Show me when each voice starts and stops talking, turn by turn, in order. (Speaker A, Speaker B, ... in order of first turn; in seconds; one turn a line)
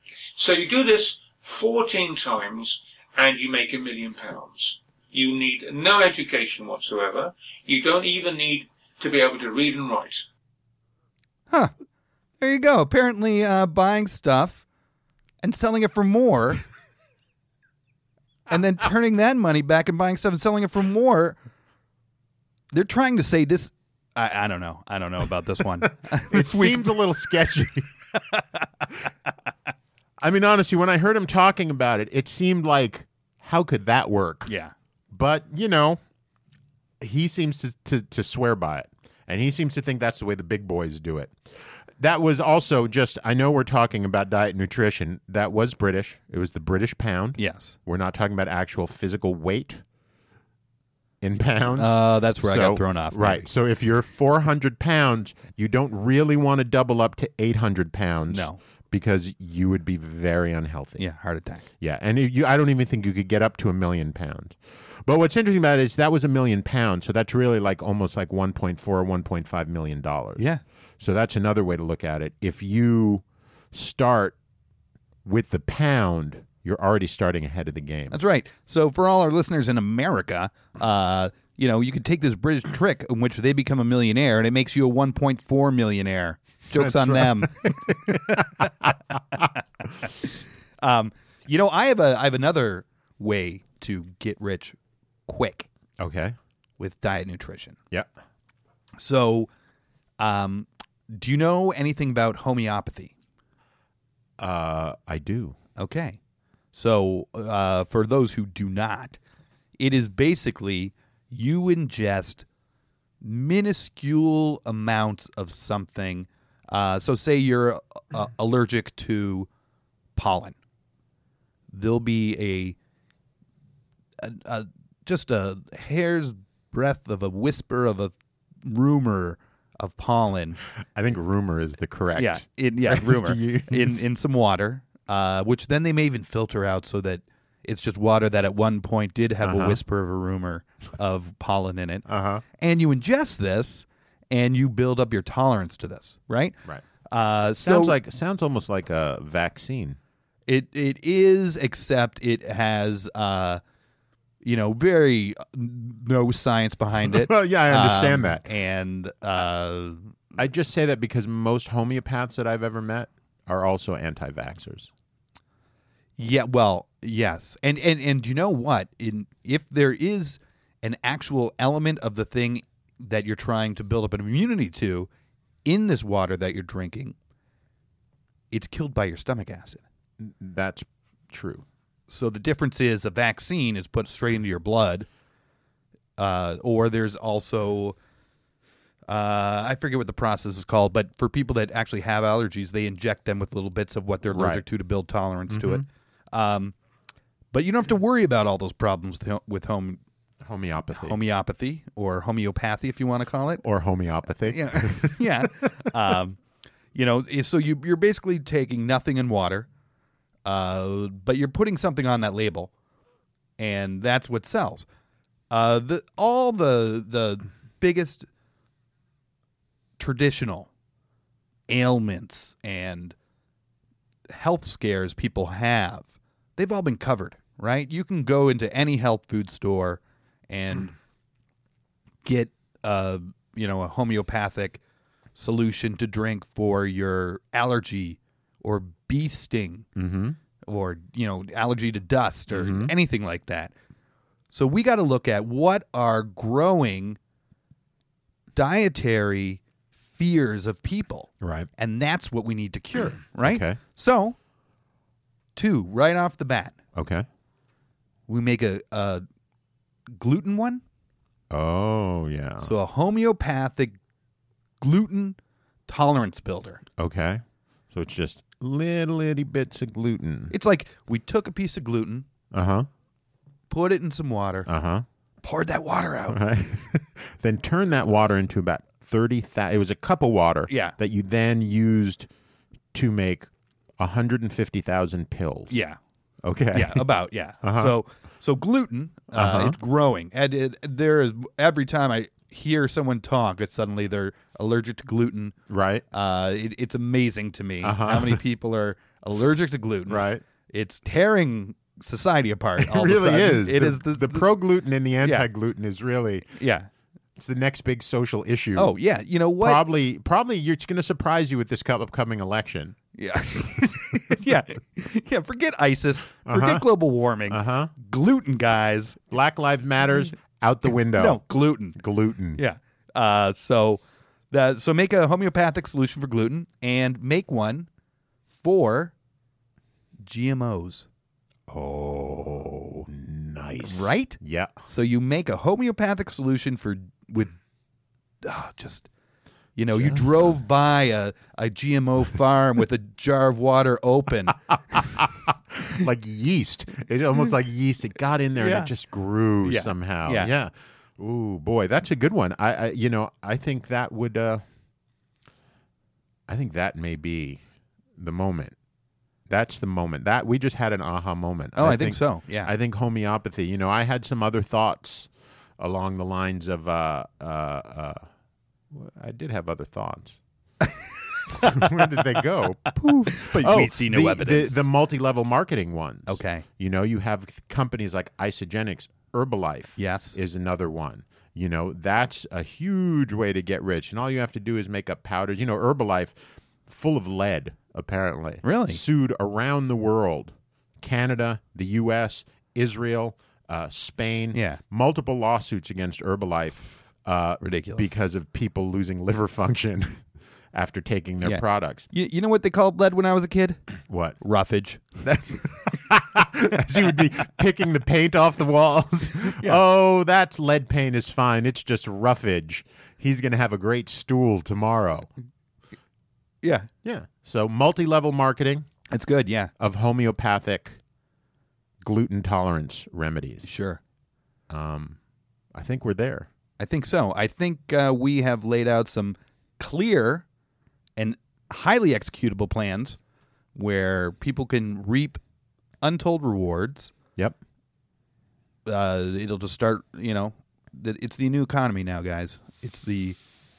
Speaker A: 0.3-10.3
Speaker B: 12.4-14.7
Speaker B: 15.4-16.6
Speaker B: 18.5-21.4
Speaker B: 22.7-27.0
Speaker C: 26.0-27.9
Speaker B: 28.2-28.6
Speaker C: 30.2-34.5
Speaker B: 34.5-34.7
Speaker C: 35.1-36.0
Speaker C: 37.0-41.4
Speaker C: 42.0-49.8
Speaker B: 47.4-47.7
Speaker C: 51.2-61.1
Speaker B: 51.8-53.5
Speaker B: 58.3-58.6
Speaker B: 61.0-61.6
Speaker C: 61.8-70.5
Speaker C: 71.0-74.4
Speaker C: 75.2-78.2
Speaker B: 78.1-89.4
Speaker C: 86.7-89.4
Speaker B: 90.8-95.7
Speaker C: 96.0-96.4
Speaker B: 96.8-97.8
Speaker B: 99.0-99.5
Speaker B: 100.2-103.1
Speaker C: 104.4-105.6
Speaker B: 105.8-106.2
Speaker B: 106.7-109.2
Speaker B: 109.8-112.5
Speaker B: 113.2-119.5
Speaker B: 120.2-120.6
Speaker B: 121.7-122.8
Speaker B: 124.2-130.6
Speaker C: 130.9-134.0
Speaker B: 132.2-142.1
Speaker C: 139.4-139.8
Speaker C: 142.1-142.4
Speaker B: 142.6-146.6
Speaker B: 147.1-148.0
Speaker C: 147.6-150.0
Speaker B: 150.5-153.6
Speaker B: 154.4-160.1
Speaker C: 157.0-158.4
Speaker C: 160.4-164.9
Speaker B: 166.2-175.1
Speaker B: 175.7-177.2
Speaker B: 178.5-179.8
Speaker C: 180.2-181.7
Speaker B: 182.1-185.1
Speaker B: 186.2-188.0
Speaker B: 189.1-196.8
Speaker C: 194.3-194.7
Speaker C: 195.5-195.8
Speaker B: 197.5-200.0
Speaker C: 200.4-201.2
Speaker B: 201.0-203.6
Speaker C: 203.6-205.7
Speaker B: 204.5-206.4
Speaker B: 206.9-209.7
Speaker B: 210.4-212.7
Speaker B: 213.6-214.9
Speaker B: 215.5-218.3
Speaker B: 220.0-220.7
Speaker B: 221.7-223.2
Speaker B: 224.3-230.9
Speaker B: 232.2-234.8
Speaker B: 235.4-239.9
Speaker C: 240.0-240.4
Speaker B: 240.6-243.7
Speaker C: 242.5-242.9
Speaker B: 244.5-247.2
Speaker B: 248.6-249.6
Speaker B: 250.2-254.4
Speaker C: 251.4-251.7
Speaker C: 253.4-253.8
Speaker B: 255.6-256.8
Speaker C: 256.9-257.3
Speaker B: 258.3-259.2
Speaker B: 260.1-260.8
Speaker C: 261.5-262.8
Speaker B: 262.6-264.0
Speaker B: 264.8-266.8
Speaker C: 267.0-270.5
Speaker B: 270.5-272.3
Speaker C: 272.5-272.9
Speaker B: 273.7-274.7
Speaker C: 274.7-275.1
Speaker B: 275.4-276.4
Speaker C: 276.3-282.3
Speaker B: 280.7-281.0
Speaker C: 282.9-285.8
Speaker B: 285.7-286.0
Speaker C: 286.4-287.1
Speaker B: 286.7-295.6
Speaker C: 287.6-288.0
Speaker C: 289.4-289.8
Speaker C: 295.7-296.1
Speaker B: 296.1-304.5
Speaker C: 297.8-298.4
Speaker C: 300.1-300.4
Speaker C: 302.8-306.5
Speaker B: 305.2-305.5
Speaker B: 306.6-306.9
Speaker C: 307.4-308.9
Speaker B: 308.8-309.8
Speaker C: 309.6-313.0
Speaker B: 313.2-319.2
Speaker C: 313.6-314.3
Speaker C: 316.5-316.9
Speaker C: 317.5-317.9
Speaker C: 319.3-321.4
Speaker B: 321.1-322.0
Speaker C: 321.9-322.6
Speaker B: 322.6-327.9
Speaker B: 328.5-329.1
Speaker B: 330.2-331.1
Speaker C: 331.7-334.8
Speaker B: 333.8-337.6
Speaker B: 338.4-339.1
Speaker B: 339.8-345.1
Speaker C: 339.9-340.6
Speaker C: 345.8-354.6
Speaker B: 348.6-348.9
Speaker B: 349.6-350.5
Speaker C: 356.5-357.6
Speaker C: 358.2-358.8
Speaker C: 359.5-368.3
Speaker B: 361.8-362.7
Speaker C: 368.9-370.4
Speaker B: 370.9-372.0
Speaker C: 371.6-402.1
Speaker B: 373.3-374.8
Speaker B: 376.3-376.6
Speaker B: 380.0-380.4
Speaker B: 388.6-389.0
Speaker B: 394.5-394.8
Speaker B: 397.6-398.1
Speaker B: 401.4-403.8
Speaker C: 404.1-404.4
Speaker B: 404.4-405.0
Speaker C: 405.2-415.3
Speaker B: 409.5-409.8
Speaker B: 416.6-416.9
Speaker C: 417.0-418.9
Speaker B: 419.1-419.7
Speaker C: 419.8-421.0
Speaker C: 422.0-423.7
Speaker B: 423.6-424.0
Speaker C: 424.7-425.2
Speaker C: 425.7-426.5
Speaker B: 426.8-430.4
Speaker B: 431.2-433.2
Speaker B: 433.8-435.4
Speaker B: 436.0-437.1
Speaker B: 438.9-443.4